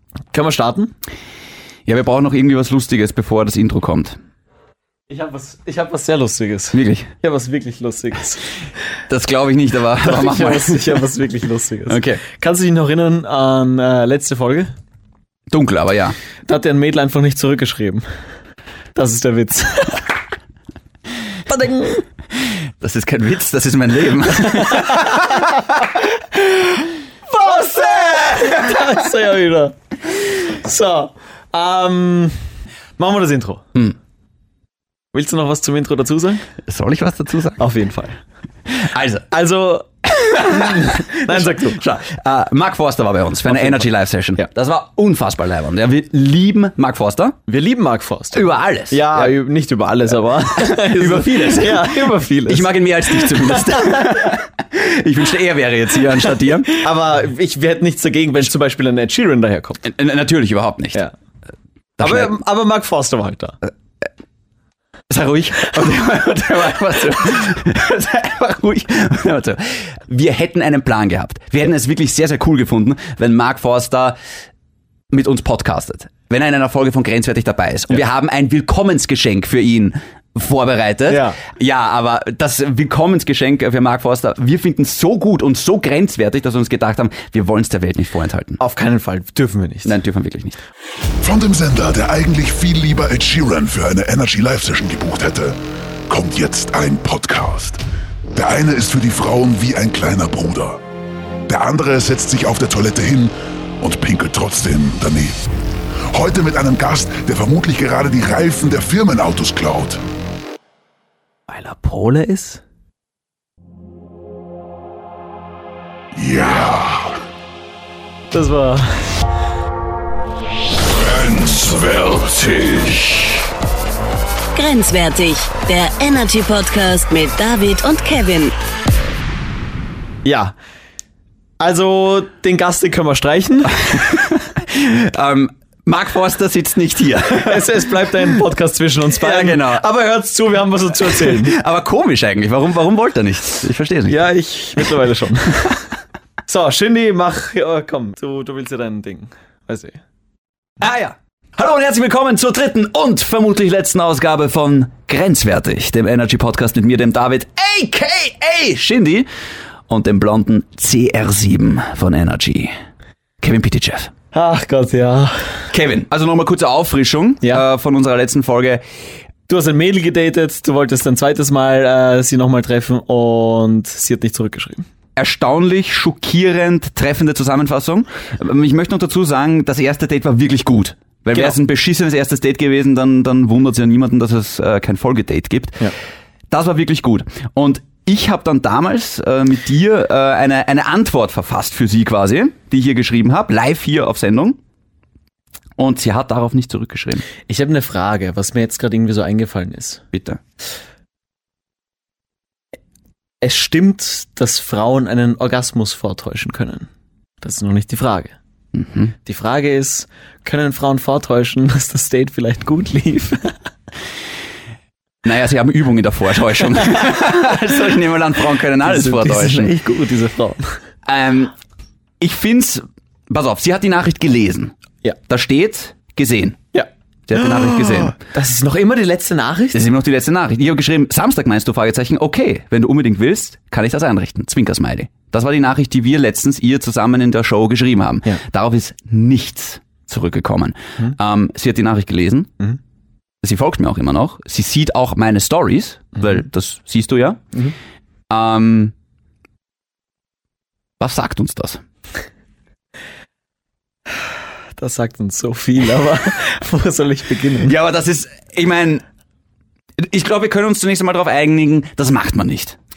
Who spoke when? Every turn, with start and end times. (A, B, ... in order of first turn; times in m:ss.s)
0:00.3-0:00.9 A
0:01.8-0:04.2 B
0:05.1-0:08.4 A
0:06.7-0:07.1 B
0:09.1-0:11.0 B
0:10.0-0:14.7 A
0:11.9-0:12.2 B
0:15.5-0:16.2 B
0:16.4-0:18.0 A
0:18.9-0:20.1 A
0:21.5-0:22.0 A
0:22.8-0:25.4 B
0:24.7-0:32.3 A
0:33.0-0:33.8 A
0:35.1-0:36.4 A
0:36.7-0:37.6 B
0:37.6-0:38.2 A
0:38.7-0:39.2 B
0:39.3-0:41.8 A
0:40.2-0:47.4 B
0:43.4-0:43.9 A
0:47.5-0:54.1 A
0:48.3-0:49.3 B
0:50.6-0:56.9 B
0:56.7-0:59.8 A
0:59.8-1:01.0 B
1:02.0-1:02.3 B
1:02.0-1:03.6 A
1:05.1-1:14.2 B
1:15.1-1:28.6 B
1:21.1-1:21.4 A
1:28.6-1:30.0 A
1:29.8-1:30.6 B
1:31.2-1:37.8 C
1:38.3-1:40.8 C
1:41.4-1:45.4 C
1:46.1-1:50.0 C
1:51.5-1:52.6 A
1:56.1-1:57.2 C
1:58.3-1:58.9 A
2:00.9-2:03.4 C
2:04.5-2:08.5 D
2:10.2-2:10.5 A
2:11.6-2:14.0 A
2:13.9-2:18.4 B
2:17.4-2:21.6 A
2:19.2-2:19.8 B
2:21.0-2:24.2 B
2:24.1-2:25.8 A
2:26.4-2:30.0 A
2:30.8-2:39.3 B
2:39.9-2:42.7 B
2:43.4-2:44.1 B
2:44.3-2:45.6 A
2:45.7-2:48.8 B
2:49.5-2:54.8 A
2:55.2-3:05.9 B
3:06.5-3:14.6 B
3:15.8-3:17.2 B
3:17.5-3:20.0 A
3:20.1-3:20.4 B
3:23.4-3:26.9 A
3:27.4-3:28.3 A
3:28.7-3:29.1 B
3:29.2-3:33.5 A
3:35.2-3:39.8 B
3:38.8-3:40.7 A
3:41.0-3:41.5 B
3:42.2-3:44.7 B
3:45.3-3:46.6 B
3:46.7-3:49.8 A
3:47.3-3:48.2 B
3:49.7-4:02.5 B
4:03.4-4:07.4 B
4:08.3-4:08.9 B
4:11.0-4:11.8 B
4:14.8-4:17.8 A
4:17.6-4:19.0 B
4:20.0-4:22.8 B